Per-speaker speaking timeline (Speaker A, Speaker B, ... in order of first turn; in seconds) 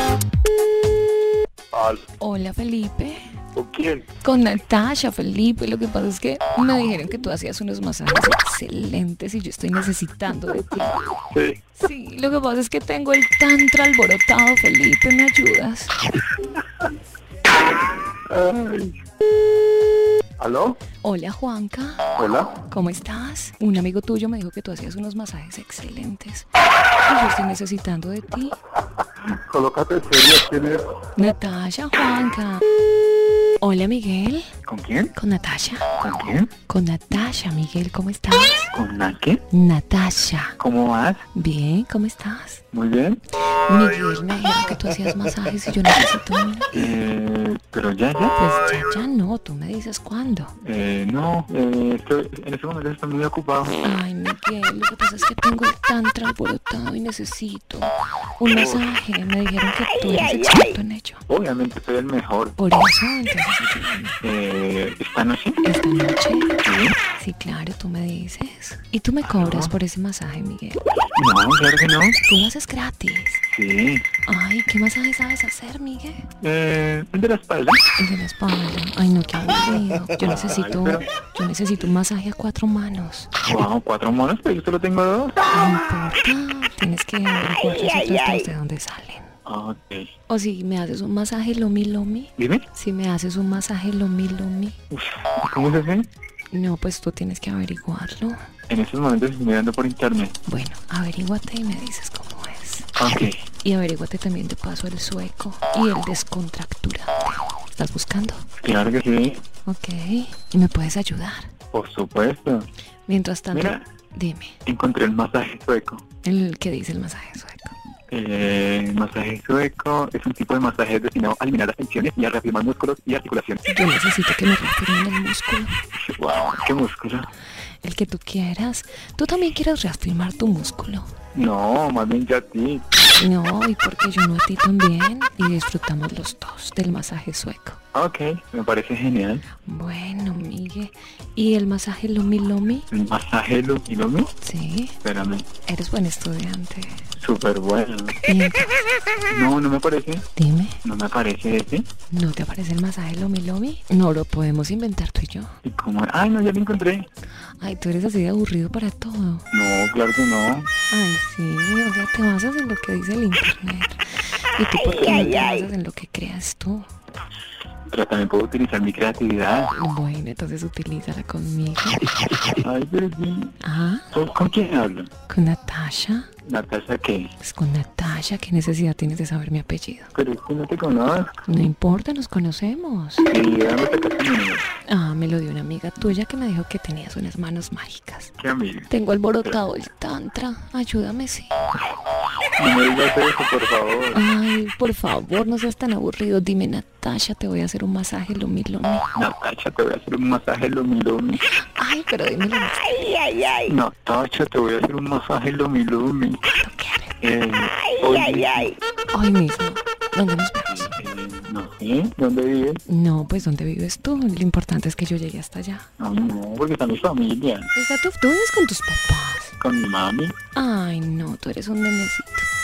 Speaker A: 2.2-3.3, 4.2-11.0, 11.8-15.9, 21.0-22.0, 22.7-26.5, 27.0-28.6, 31.1-32.6, 33.6-34.5, 35.1-35.9, 36.7-38.7, 39.5-40.6, 41.3-42.6, 43.6-46.8, 48.4-50.5, 53.8-61.2, 62.6-64.2, 65.6-66.5, 67.2-70.8, 72.2-73.4, 74.2-76.3, 78.0-83.3, 85.5-89.3, 90.3-94.8, 96.5-98.4, 100.5-102.9, 103.6-108.5, 109.7-111.5, 113.0-114.5, 116.2-117.8, 123.6-125.7, 127.8-131.1, 133.1-137.8, 139.6-142.9, 144.4-145.0, 145.7-147.1, 148.3-148.8, 150.3-150.8, 152.1-155.6, 157.6-159.5, 160.9-166.9, 169.7-172.0, 173.6-174.1, 175.3-176.3, 177.4-180.1, 181.4-183.3, 184.8-188.3, 188.9-191.5, 194.1-199.0, 201.4-203.0, 206.4-207.1, 209.1-210.9, 212.9-215.9, 217.7-219.5, 220.5-222.5
Speaker B: 3.5-4.0, 11.3-11.6, 18.3-19.0, 20.4-20.8, 22.1-22.6, 29.5-30.9, 34.6-35.1, 36.0-36.5, 38.7-39.4, 40.6-41.2, 42.7-43.2, 46.7-48.4, 50.6-53.8, 61.3-62.6, 64.2-65.6, 66.6-67.0, 69.2-69.8, 71.1-72.2, 73.5-74.1, 76.4-77.8, 80.4-81.0, 83.5-85.4, 89.5-90.1, 92.4-92.7, 94.9-96.1, 98.7-100.3, 103.0-103.4, 108.6-109.4, 111.7-112.7, 113.5-113.8, 114.6-116.0, 118.1-123.6, 126.0-127.3, 131.3-132.8, 137.9-139.4, 142.9-144.3, 145.0-145.4, 147.2-148.2, 149.3-150.2, 150.8-151.9, 155.6-157.1, 159.5-160.7, 167.9-169.7, 172.6-175.1, 176.4-177.3, 180.1-181.4, 183.3-184.7, 188.4-188.9, 192.6-194.2, 199.1-201.4, 203.6-206.4, 207.2-208.7, 210.7-212.8, 216.0-217.7, 219.6-220.3